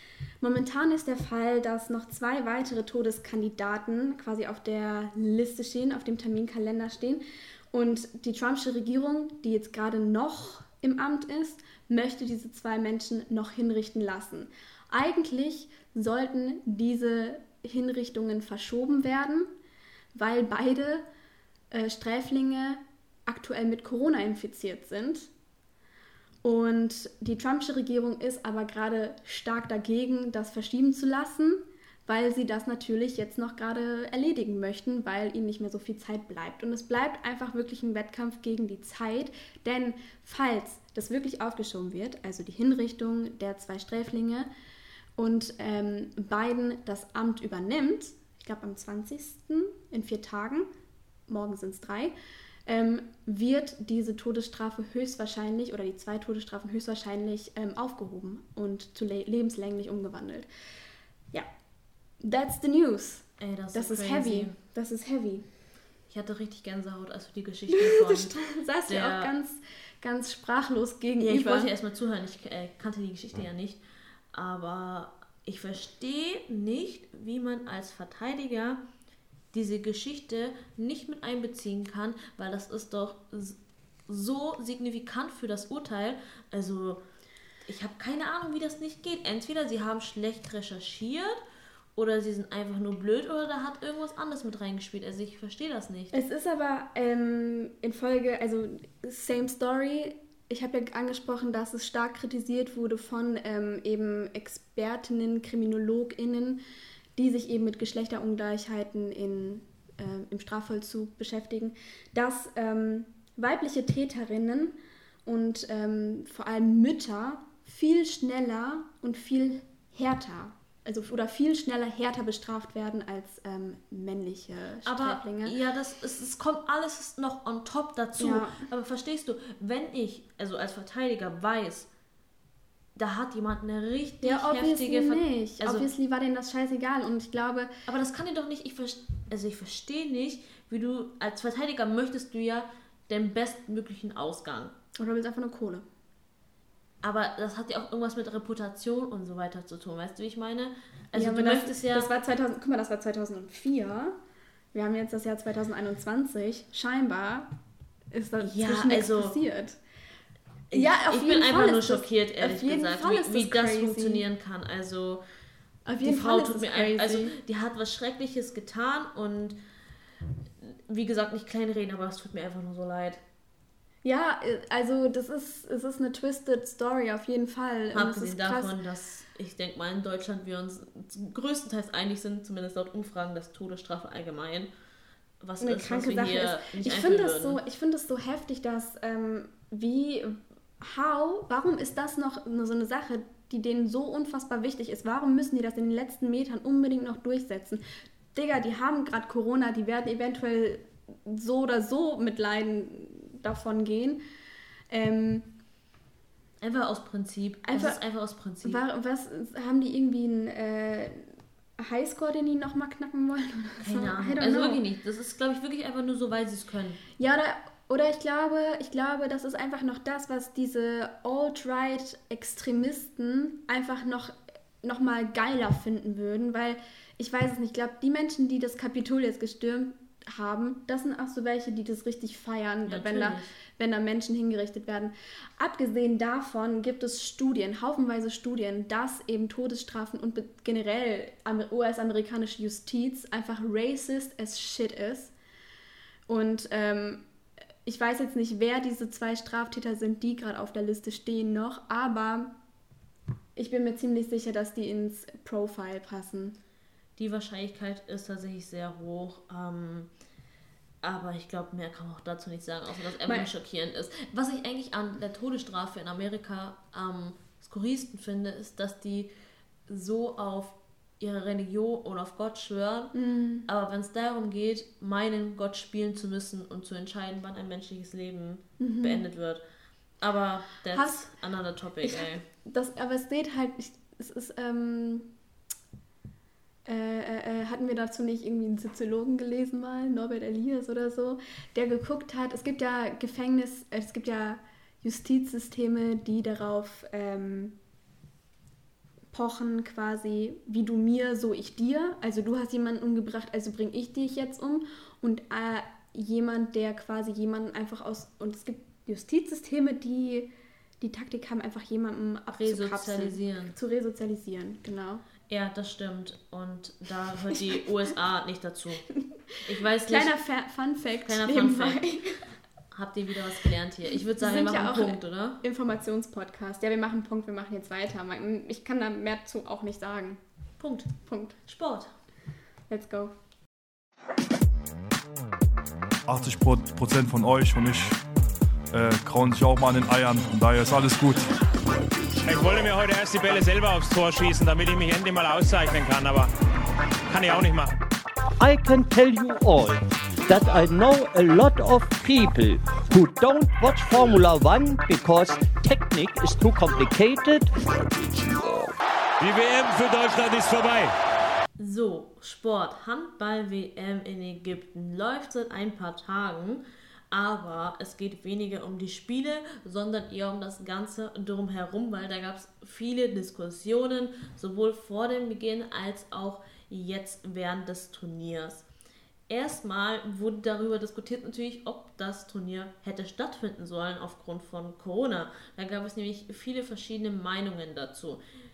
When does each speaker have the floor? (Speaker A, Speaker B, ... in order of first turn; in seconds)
Speaker A: 0.4-7.2, 7.7-19.5, 20.1-21.0, 21.7-25.3, 26.4-44.5, 45.2-50.7, 51.3-52.1, 52.7-60.5, 62.2-65.4, 67.7-71.7, 96.1-106.6, 107.2-114.7, 115.2-125.5, 128.2-128.6, 134.2-137.7, 145.0-145.8, 151.1-154.1, 154.7-157.5, 158.1-159.8, 160.7-164.2, 165.8-167.3, 174.0-178.7, 185.6-197.8, 198.3-204.2, 204.9-205.5, 207.7-208.0, 208.6-211.2, 211.8-214.8, 217.2-245.3, 246.3-247.2, 247.8-252.5, 253.6-256.6, 273.1-273.6, 278.8-279.2, 280.9-281.2, 282.0-285.3, 286.9-297.7, 299.3-310.5, 311.0-315.2, 320.1-322.4, 324.4-330.4, 331.2-331.6, 332.9-333.3
Speaker B: 63.4-64.5, 66.1-68.3, 68.9-69.3, 71.2-73.8, 74.3-78.8, 79.5-87.0, 87.7-91.4, 92.0-96.2, 124.8-131.9, 132.9-135.9, 137.9-144.7, 147.0-152.1, 158.4-159.3, 160.7-165.2, 166.0-169.6, 170.6-173.2, 177.9-184.7, 185.4-187.6, 206.6-208.8, 213.8-217.0, 232.8-233.5, 257.2-260.1, 261.0-269.3, 269.9-273.1, 273.7-279.6, 280.2-282.4, 312.5-313.8, 315.5-319.0, 319.6-320.3, 321.2-322.0, 322.9-325.6, 330.8-331.1, 331.6-332.1, 361.8-378.8, 379.5-388.4
Speaker C: 336.2-338.2, 338.9-341.4
Speaker D: 342.4-346.5, 347.3-347.9, 359.4-361.1
Speaker E: 348.6-357.7